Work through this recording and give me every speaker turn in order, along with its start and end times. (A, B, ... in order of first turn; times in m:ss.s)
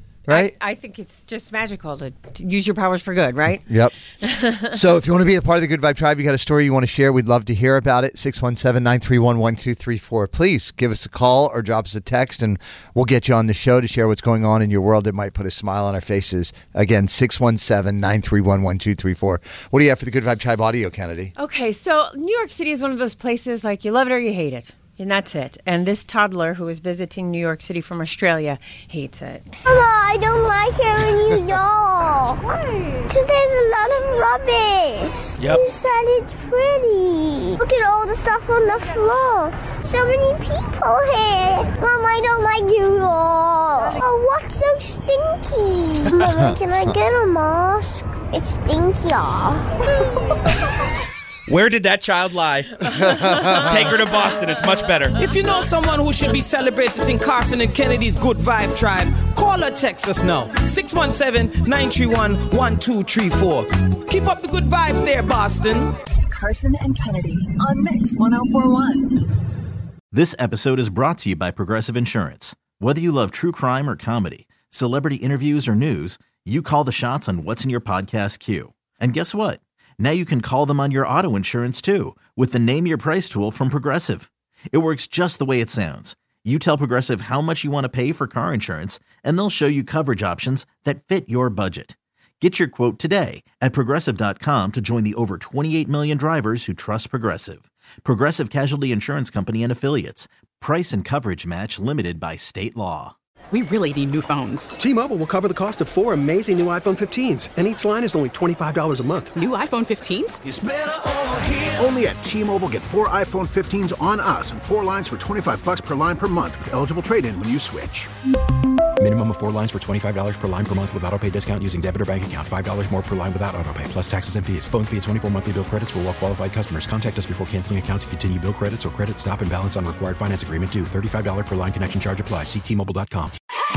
0:00.3-0:00.5 A
0:00.3-0:03.6 B
0:03.7-0:03.9 A
0:04.2-0:04.6 B
0:04.6-0:21.3 A
0:21.4-0:29.4 B
0:29.6-0:49.9 C
0:35.4-0:35.6 D
0:51.5-0:55.1 E
0:53.0-0:53.9 A
0:55.1-1:05.9 D
1:06.3-1:09.2 F
1:10.1-1:43.1 G
1:43.5-1:44.7 H
1:44.8-1:49.4 I
1:49.4-1:50.4 H
1:50.4-1:58.1 J
1:59.0-2:13.4 K